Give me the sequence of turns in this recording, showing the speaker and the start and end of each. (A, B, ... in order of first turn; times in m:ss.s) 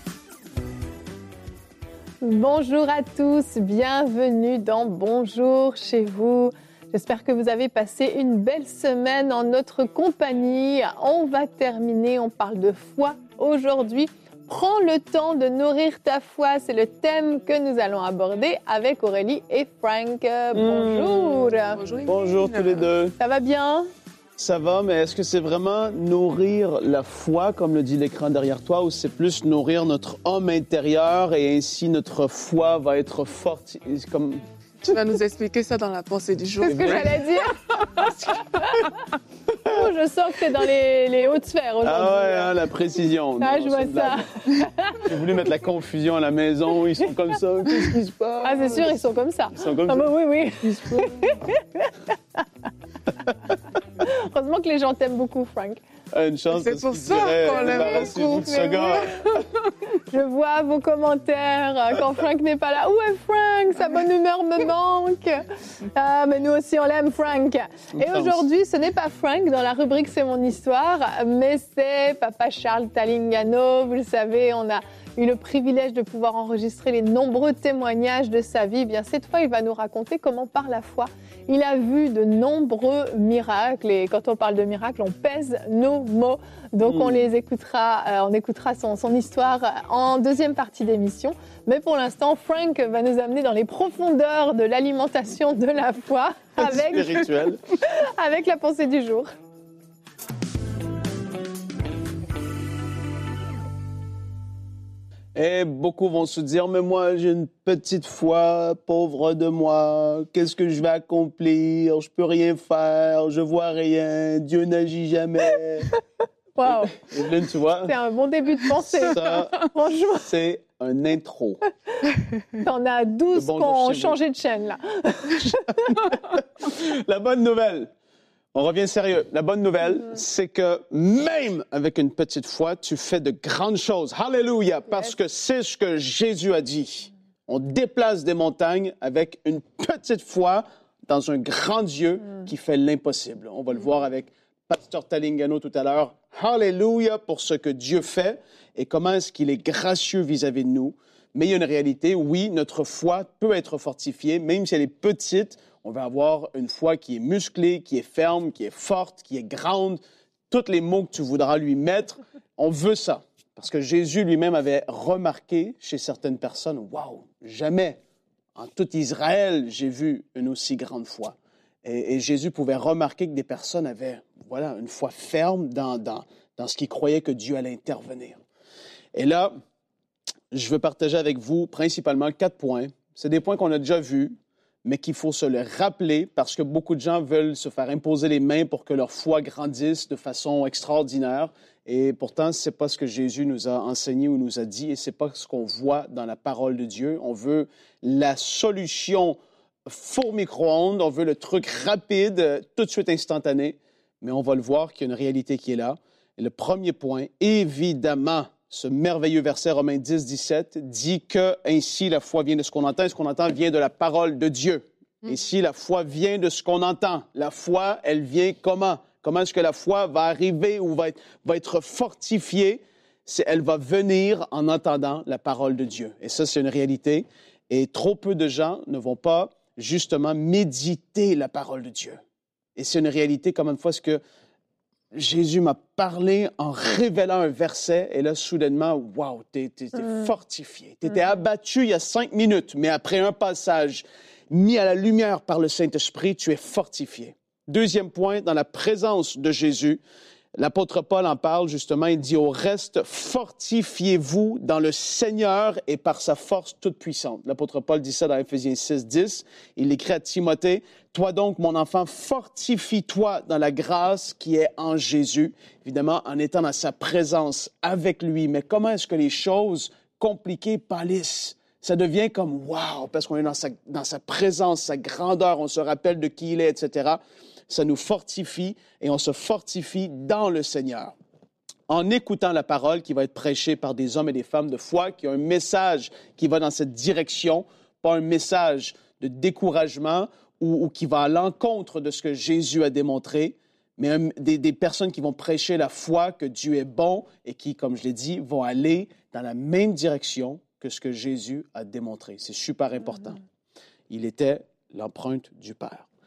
0:02.2-0:21.8 A
0:20.5-0:23.1 B
0:21.7-0:22.9 C
0:23.2-0:23.9 A
0:24.4-0:34.4 B
0:34.8-0:37.1 C
0:36.6-0:37.1 B
0:36.6-0:37.6 A
0:37.8-0:38.3 B
0:38.3-0:38.8 A
0:39.6-0:42.5 A
0:41.8-0:44.2 B
0:43.4-0:45.1 A
0:45.0-0:49.0 B
0:48.4-0:52.1 A
0:49.5-0:50.1 B
0:50.6-0:51.1 B
0:54.0-0:55.8 A
0:56.1-0:59.4 B
0:56.5-0:59.4 C
0:57.5-0:59.3 A
1:00.1-1:37.3 A
1:07.9-1:08.4 B
1:26.9-1:27.2 B
1:36.6-1:37.6 B
1:37.8-1:39.3 A
1:45.3-1:55.9 B
1:56.6-1:57.1 A
1:56.7-1:57.9 B
1:57.8-2:00.2 A
1:59.0-1:59.7 B
2:00.2-2:01.6 B
2:02.6-2:06.0 A
2:03.3-2:04.2 B
2:05.9-2:07.9 B
2:08.5-2:48.0 B
2:48.6-2:58.4 B
2:59.1-2:59.5 B
3:00.5-3:52.2 B
3:52.8-3:54.2 B
3:55.1-4:10.0 B
4:10.6-4:41.1 B
4:41.9-5:03.4 B
5:04.1-5:06.0 B